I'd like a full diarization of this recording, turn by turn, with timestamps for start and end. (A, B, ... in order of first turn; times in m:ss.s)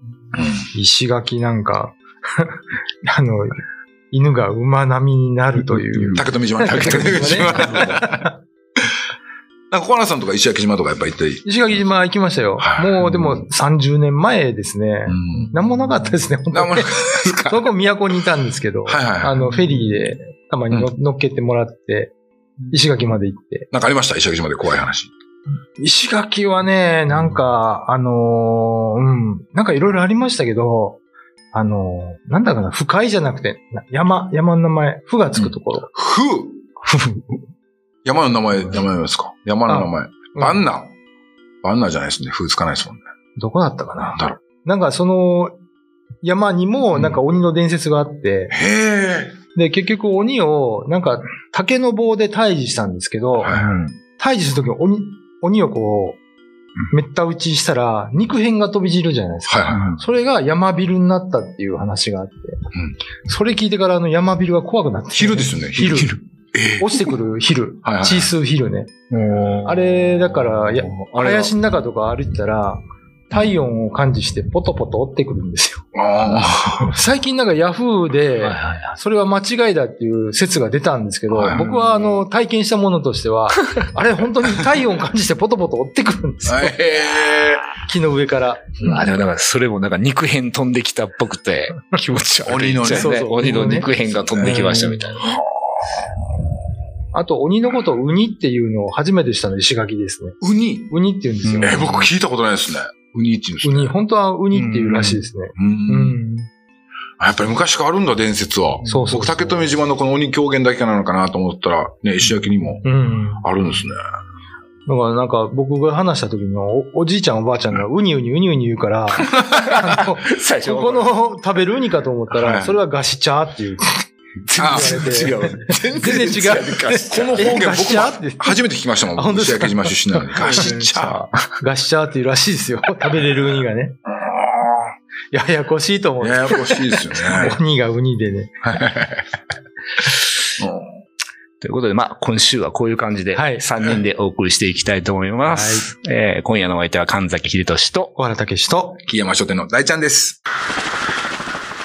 0:00.3-0:00.7 A
0:00.7-0:08.3 B
0:05.9-0:06.2 C
0:06.1-0:08.3 A
0:07.2-0:07.9 C
0:09.7-0:11.4 A
0:11.4-0:22.1 B
0:12.6-0:13.1 A
0:15.1-0:15.6 A
0:16.5-0:17.6 A
0:18.9-0:19.6 A
0:22.7-0:23.7 B
0:23.7-0:25.1 A
0:25.8-0:31.0 B
0:31.5-0:35.9 B
0:35.4-0:36.6 A
0:36.8-0:37.4 B
0:38.0-0:40.9 A
0:39.7-0:40.7 B
0:41.6-0:43.0 A
0:43.4-0:45.5 B
0:44.1-0:44.4 A
0:46.2-0:48.5 B
0:48.5-0:49.4 A
0:49.5-0:53.6 B
0:53.4-0:53.7 A
0:53.5-0:54.0 C
0:54.2-0:56.2 B
0:56.9-1:02.6 B
0:59.5-0:59.8 A
0:59.7-1:00.0 C
1:03.2-1:06.2 B
1:05.1-1:07.0 A
1:05.9-1:06.2 C
1:06.8-1:08.9 B
1:07.8-1:08.3 A
1:09.1-1:11.5 C
1:09.6-1:15.8 B
1:15.9-1:16.9 A
1:16.9-1:26.8 B
1:18.4-1:18.9 C
1:21.3-1:21.7 A
1:21.5-1:22.2 C
1:26.4-1:27.7 A
1:27.8-1:28.9 B
1:28.8-1:35.4 C
1:32.4-1:33.2 A
1:32.8-1:33.9 B
1:34.1-1:35.4 A
1:34.4-1:35.0 B
1:37.1-1:41.8 B
1:40.4-1:40.9 A
1:41.4-1:42.0 C
1:41.6-1:43.9 A
1:43.6-1:46.5 B
1:44.5-1:45.2 C
1:45.6-1:46.2 A
1:47.2-1:52.9 A
1:48.8-1:49.1 C
1:48.8-1:49.7 B
1:52.8-1:53.5 B
1:53.4-1:54.0 A
1:54.8-2:04.0 B
1:59.5-2:01.2 C
2:02.3-2:02.8 A
2:04.4-2:07.6 C
2:04.6-2:05.0 A
2:04.6-2:08.6 B
2:07.1-2:11.2 A
2:09.1-2:14.0 B
2:10.5-2:10.8 C
2:14.1-2:14.9 A
2:15.3-2:18.7 B
2:16.2-2:17.6 A
2:18.6-2:19.2 A
2:20.6-2:20.9 A
2:21.6-2:28.1 C
2:23.3-2:23.6 B
2:25.4-2:25.9 B
2:28.2-2:29.0 B
2:29.0-2:30.4 A